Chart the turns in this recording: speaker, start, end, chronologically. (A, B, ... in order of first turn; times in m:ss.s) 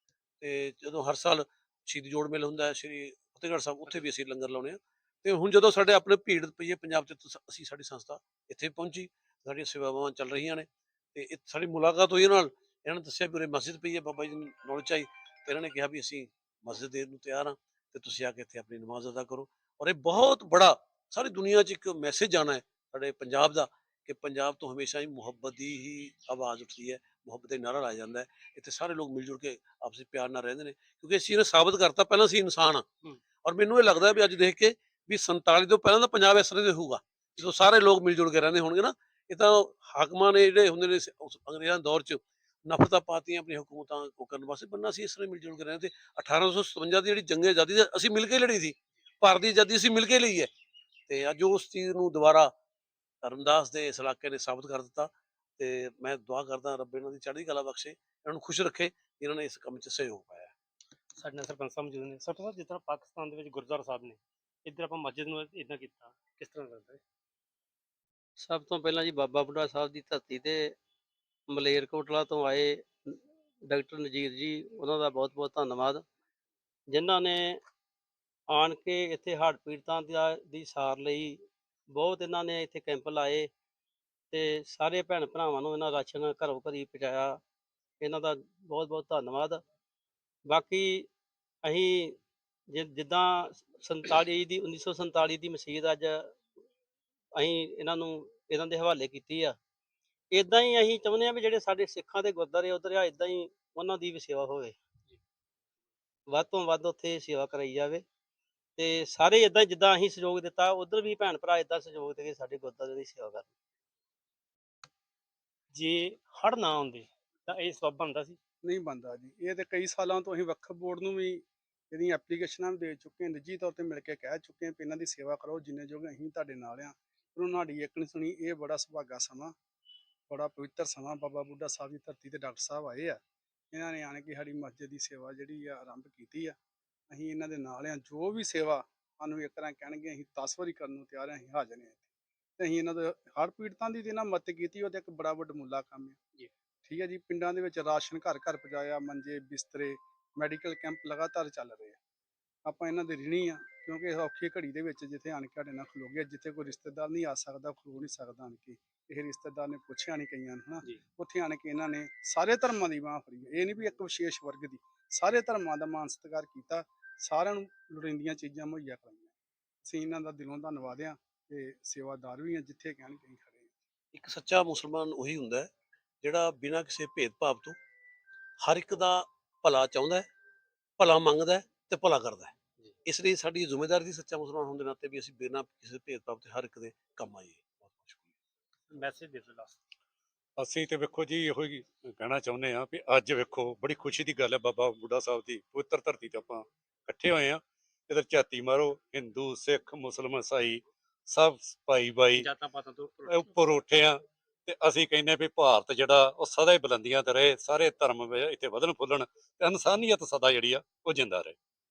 0:00.4-0:32.9 A
0:33.4-0:50.5 A
0:51.1-0:52.5 A
0:53.2-1:00.5 A
1:01.2-1:07.0 B
1:08.4-1:10.7 C
1:11.5-1:13.2 C
1:13.7-1:16.0 C
1:16.9-1:17.6 C
1:18.5-1:21.4 C
1:21.9-1:23.5 C
1:24.3-1:27.4 C
1:28.0-1:29.6 C
1:30.5-1:31.1 C
1:31.6-1:32.2 C
1:32.7-1:36.3 C
1:37.4-1:39.6 C
1:40.3-1:44.7 C
1:46.3-1:48.0 C
1:48.8-1:53.5 C
1:55.7-1:58.4 B
1:58.6-2:09.6 D
2:10.3-2:13.2 D
2:13.7-2:16.6 D
2:17.1-2:26.2 D
2:26.8-2:32.0 D
2:32.6-2:53.8 D
2:54.1-2:55.7 A
2:56.2-2:57.8 A
2:58.6-3:00.3 A
3:01.0-3:08.3 A
3:08.9-3:09.7 B
3:10.6-3:22.5 E
3:22.4-3:23.5 B
3:23.3-3:31.6 E